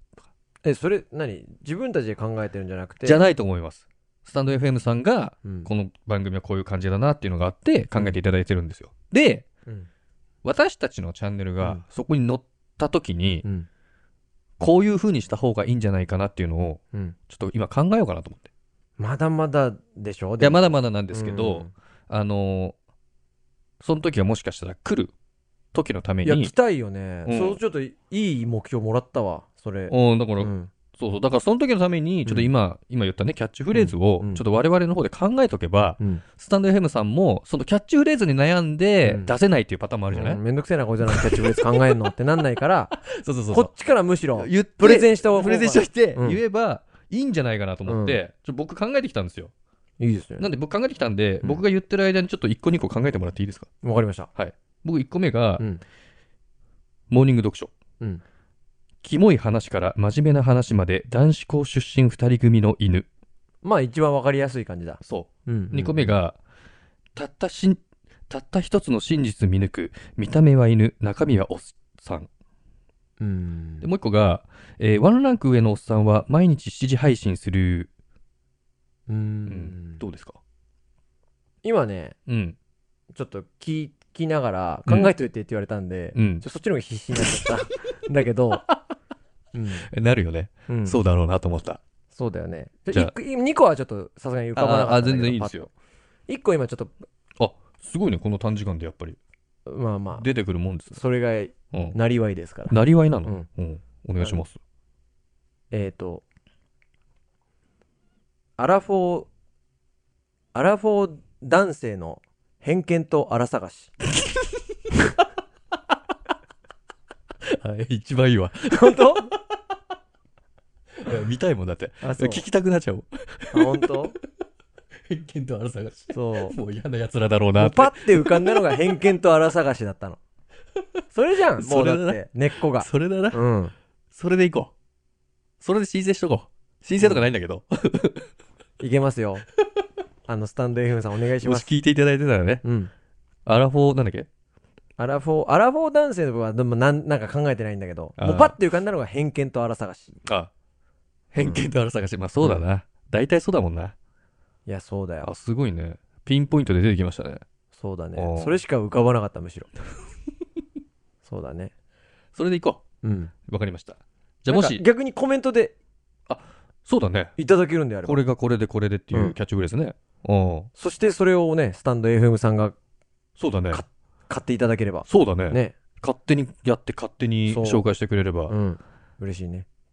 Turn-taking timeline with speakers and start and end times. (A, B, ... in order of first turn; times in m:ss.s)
0:00.6-0:03.2 A
0:03.0-0:09.4 B
0:05.4-0:05.7 A
0:10.4-0:13.4 B
0:14.6-0:18.5 B
0:19.0-0:21.7 A
0:20.4-0:22.7 B
0:23.8-0:25.1 B
0:25.7-0:26.5 B
0:26.2-0:30.7 A
0:27.2-0:27.6 B
0:29.9-0:40.4 B
0:33.7-0:34.4 A
0:39.0-0:39.3 A
0:40.1-0:46.4 A
0:41.1-0:41.9 B
0:42.9-0:43.7 B
0:44.4-0:49.5 B
0:47.8-0:48.2 A
0:50.0-0:50.5 A
0:50.4-0:53.7 B
0:53.8-0:54.3 A
0:54.3-0:55.6 B
0:57.1-0:57.7 B
0:59.0-1:03.1 B
1:03.6-1:06.2 A
1:05.0-1:06.4 B
1:07.2-1:12.3 B
1:13.2-1:13.8 A
1:13.8-1:17.9 B
1:19.1-1:20.0 A
1:19.5-1:20.4 B
1:21.6-1:22.2 A
1:22.3-1:22.6 B
1:23.1-1:28.6 A
1:26.1-1:26.4 B
1:29.5-1:29.9 A
1:29.8-1:31.8 B
1:30.7-1:31.0 A
1:32.1-1:35.7 A
1:34.5-1:35.7 B
1:36.3-1:36.9 A
1:37.4-1:39.2 B
1:39.7-1:40.3 A
1:40.2-1:41.0 B
1:40.9-1:43.5 A
1:42.7-1:44.6 B
1:44.2-1:44.4 A
1:45.7-1:46.2 A
1:48.6-1:49.3 A
1:50.5-1:53.9 A
1:57.5-1:59.4 B
1:58.7-1:59.3 A
2:01.0-2:03.9 B
2:02.0-2:02.5 A
2:03.5-2:04.1 A
2:05.1-2:08.6 B
2:06.1-2:06.6 A
2:07.6-2:10.2 A
2:11.1-2:13.7 A
2:11.6-2:12.2 B
2:12.8-2:13.4 B
2:14.1-2:14.7 B
2:15.6-2:18.3 B
2:17.0-2:17.2 A
2:18.8-2:19.4 A
2:20.3-2:21.7 A
2:21.4-2:22.6 B
2:22.6-2:22.9 A
2:23.4-2:24.3 B
2:25.0-2:30.2 A
2:28.2-2:28.6 B
2:30.2-2:30.5 B
2:31.3-2:33.9 B
2:34.6-2:35.3 A
2:35.2-2:37.4 B
2:37.7-2:39.7 A
2:38.1-2:38.6 B
2:41.2-2:41.7 A
2:42.3-2:42.8 B
2:43.0-2:43.3 A
2:43.5-2:44.8 B
2:44.5-2:45.7 A
2:46.3-2:47.3 B
2:47.4-2:48.2 A
2:48.0-2:50.7 B
2:50.8-2:52.8 A
2:53.4-2:53.8 B
2:53.7-2:55.8 A
2:55.1-2:58.5 B
2:57.5-2:57.9 A
2:58.5-2:59.6 A